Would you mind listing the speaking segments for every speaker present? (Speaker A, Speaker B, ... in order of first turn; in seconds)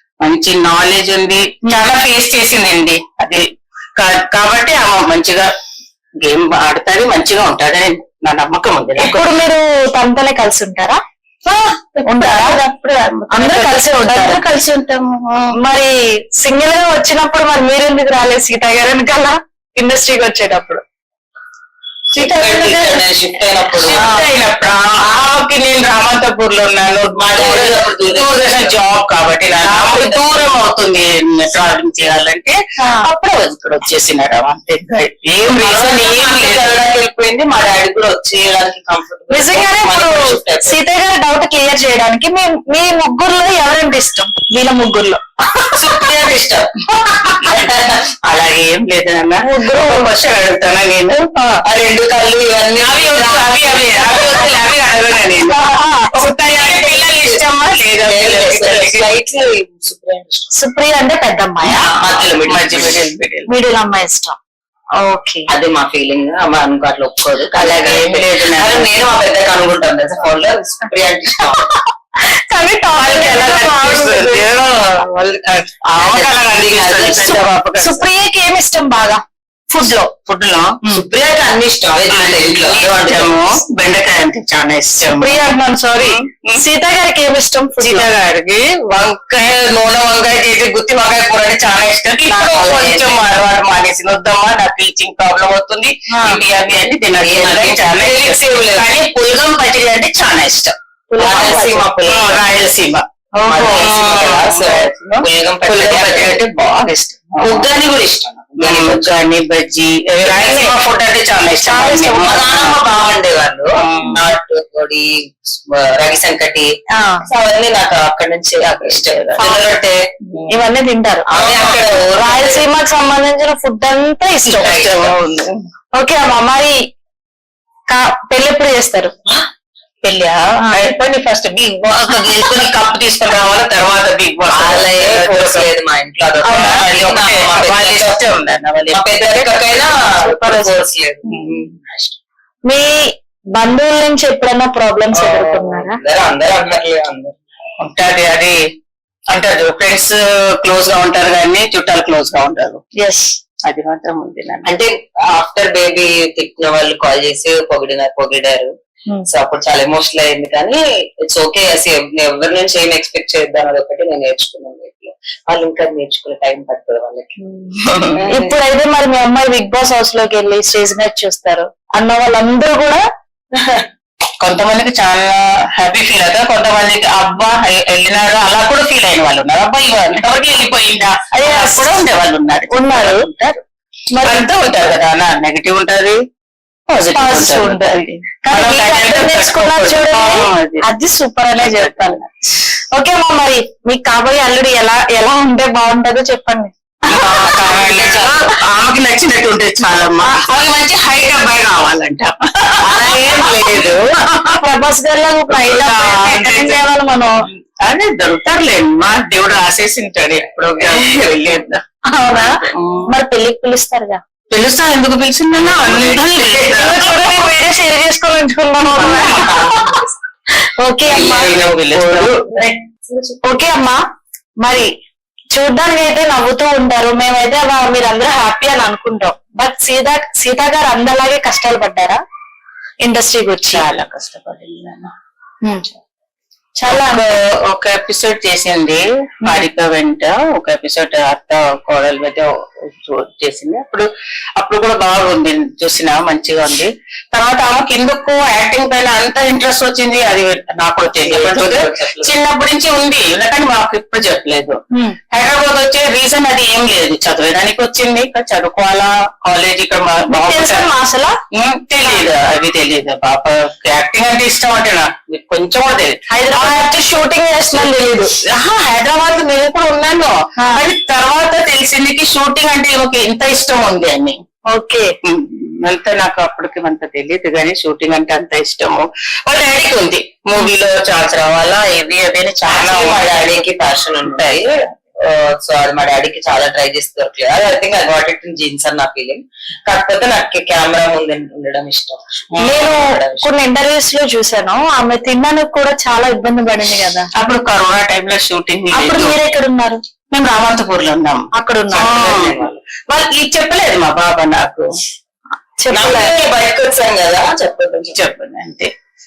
Speaker A: 0.2-3.4, 4.0-5.5, 6.2-9.2, 11.4-15.5, 22.1-23.1, 23.8-36.8, 47.3-47.7, 48.3-51.6, 52.8-59.1, 61.7-63.5, 67.5-68.9, 73.0-74.7, 75.9-78.0, 80.3-80.8, 82.1-86.6, 87.8-107.7, 108.6-112.8, 113.8-114.2, 118.8-119.5, 121.3-122.0, 124.5-125.6, 130.0-135.7, 136.4-139.8, 147.8-148.6, 149.3-152.8, 153.7-154.7, 167.8-168.2, 174.4-183.6, 184.2-186.2, 186.9-190.8, 191.6-192.3, 197.1-204.6, 205.5-206.8, 207.8-213.1, 214.5-217.5, 219.0-219.5, 221.1-222.3, 233.7-235.1, 236.9-254.8, 255.3-260.9, 261.5-267.9, 268.5-274.4, 275.2-283.7, 284.2-284.6, 297.4-299.4, 300.3-304.9, 308.1-308.9
Speaker B: 9.0-11.0, 12.0-12.6, 13.3-14.4, 15.6-20.8, 23.9-24.3, 32.8-33.0, 39.3-45.2, 49.4-50.1, 55.7-56.1, 60.5-61.9, 63.5-64.4, 65.0-65.5, 72.2-74.1, 77.8-80.1, 85.1-88.1, 96.1-96.4, 101.1-101.9, 103.4-103.9, 110.2-110.7, 111.6-112.6, 116.9-117.2, 120.5-121.3, 122.2-124.8, 125.9-126.8, 127.9-129.1, 130.6-130.9, 140.2-140.8, 142.7-143.0, 143.6-146.0, 153.0-153.4, 167.4-167.8, 168.3-173.0, 181.3-182.0, 182.7-183.3, 184.1-184.5, 187.1-192.2, 192.9-198.2, 202.9-204.0, 204.5-207.3, 212.1-212.5, 213.1-214.2, 216.7-219.7, 220.8-221.6, 223.4-224.0, 224.6-224.9, 225.5-232.2, 233.0-233.8, 236.8-237.3, 260.3-261.3, 266.3-268.3, 270.6-270.8, 274.7-275.1, 292.6-297.3, 298.9-300.0, 301.5-302.5, 305.8-306.4
Speaker C: 22.2-24.0, 27.2-28.8, 29.5-30.4, 35.5-40.8, 45.7-46.8, 47.4-48.0, 51.6-54.6, 56.5-57.4, 58.1-60.5, 62.0-63.0, 65.5-71.6, 73.8-77.4, 80.9-83.6, 92.3-93.3, 97.2-98.9, 101.2-102.5, 103.5-106.4, 107.4-109.2, 112.2-116.7, 117.2-120.0, 121.3-122.7, 124.6-125.1, 132.0-132.7, 134.5-138.2, 138.9-142.2, 145.1-147.3, 154.7-158.7, 159.3-167.4, 168.2-168.6, 173.6-173.8, 197.1-198.3, 210.8-211.5, 215.6-216.5, 219.0-220.1, 221.1-223.4, 251.1-252.3, 282.7-293.5, 302.3-302.8, 305.9-308.2